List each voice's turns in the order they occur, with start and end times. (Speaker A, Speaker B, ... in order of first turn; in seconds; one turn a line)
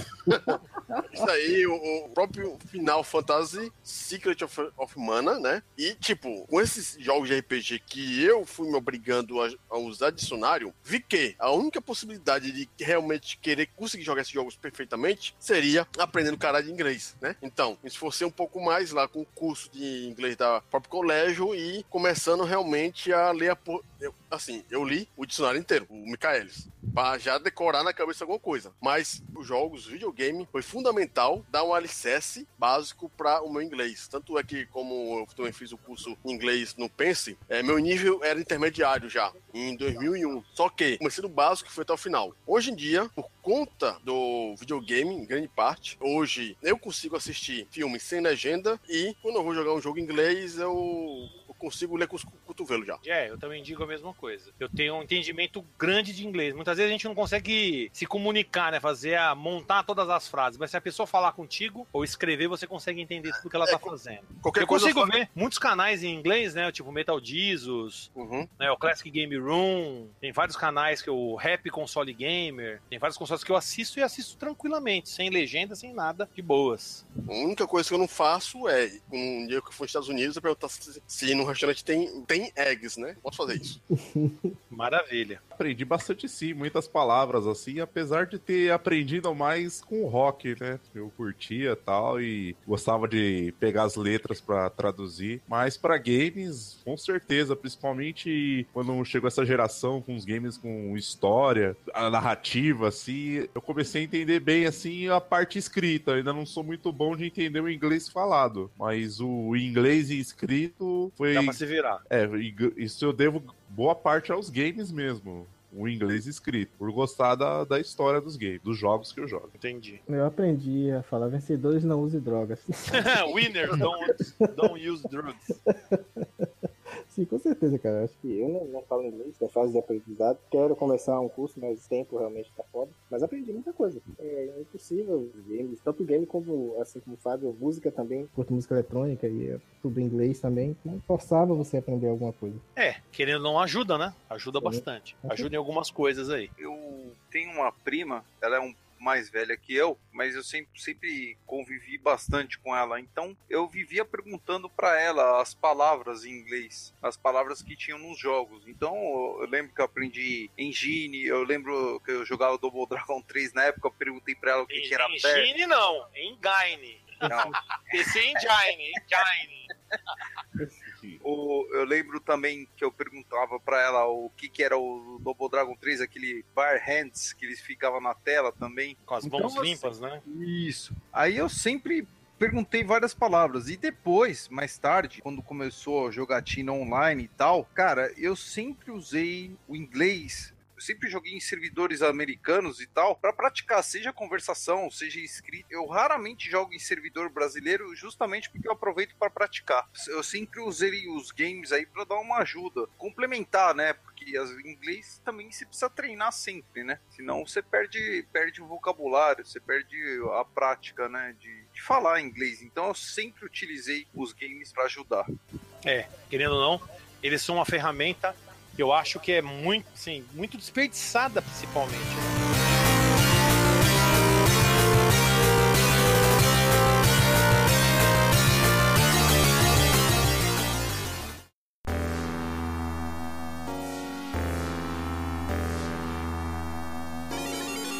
Speaker A: 0.2-1.2
Speaker B: 0.3-0.6
Speaker B: 1.1-53.0
Speaker C: 53.0-77.0
Speaker B: 63.6-65.1
Speaker B: 68.1-68.5
Speaker B: 77.3-83.8
Speaker A: 83.9-84.5
Speaker C: 84.7-85.4
Speaker D: 85.5-119.5
Speaker C: 111.3-112.0
Speaker C: 119.5-120.0
Speaker A: 120.1-123.8
Speaker C: 122.9-125.6
Speaker A: 125.7-126.5
Speaker A: 127.0-142.6
Speaker C: 142.8-146.5
Speaker A: 144.6-145.5
Speaker E: 146.6-165.5
Speaker C: 164.7-169.7
Speaker E: 167.2-168.1
Speaker E: 170.1-170.6
Speaker D: 170.8-171.2
Speaker E: 171.2-215.3
Speaker C: 179.1-180.2
Speaker C: 215.8-222.3